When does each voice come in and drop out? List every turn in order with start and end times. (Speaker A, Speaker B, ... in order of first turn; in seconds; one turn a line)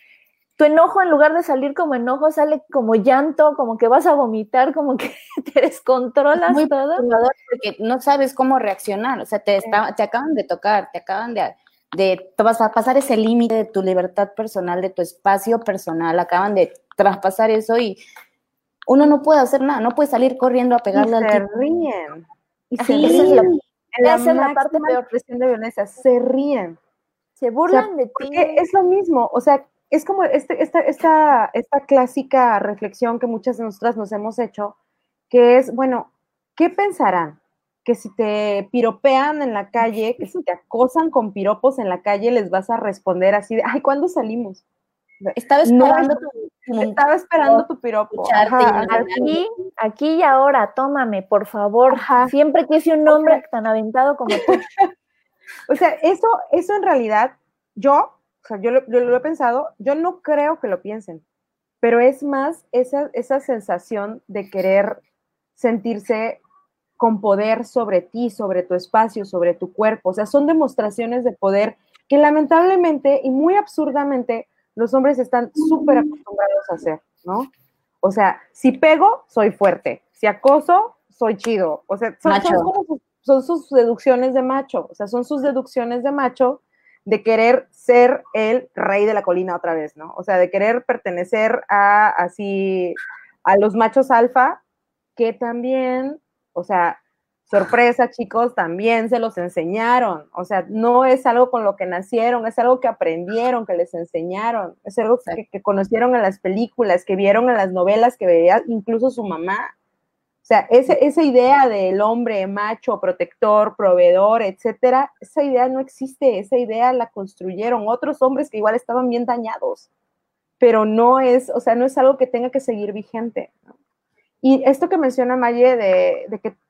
Speaker A: 0.6-7.0
Speaker B: 6.5-18.0
Speaker B: 18.9-21.4
Speaker C: 20.9-26.8
Speaker A: 22.8-25.1
Speaker B: 22.9-23.6
Speaker A: 27.4-28.6
Speaker C: 27.7-34.8
Speaker C: 35.3-44.6
Speaker C: 45.2-46.2
Speaker B: 45.4-49.4
Speaker C: 46.8-49.4
Speaker A: 48.9-54.6
Speaker C: 51.9-52.3
Speaker C: 53.1-53.4
Speaker C: 55.7-61.2
Speaker C: 61.8-65.0
Speaker C: 65.6-66.4
Speaker C: 67.0-77.5
Speaker C: 78.0-94.6
Speaker B: 82.3-82.7
Speaker C: 95.2-109.7
Speaker C: 110.4-119.9
Speaker C: 120.6-123.7
Speaker C: 124.4-126.5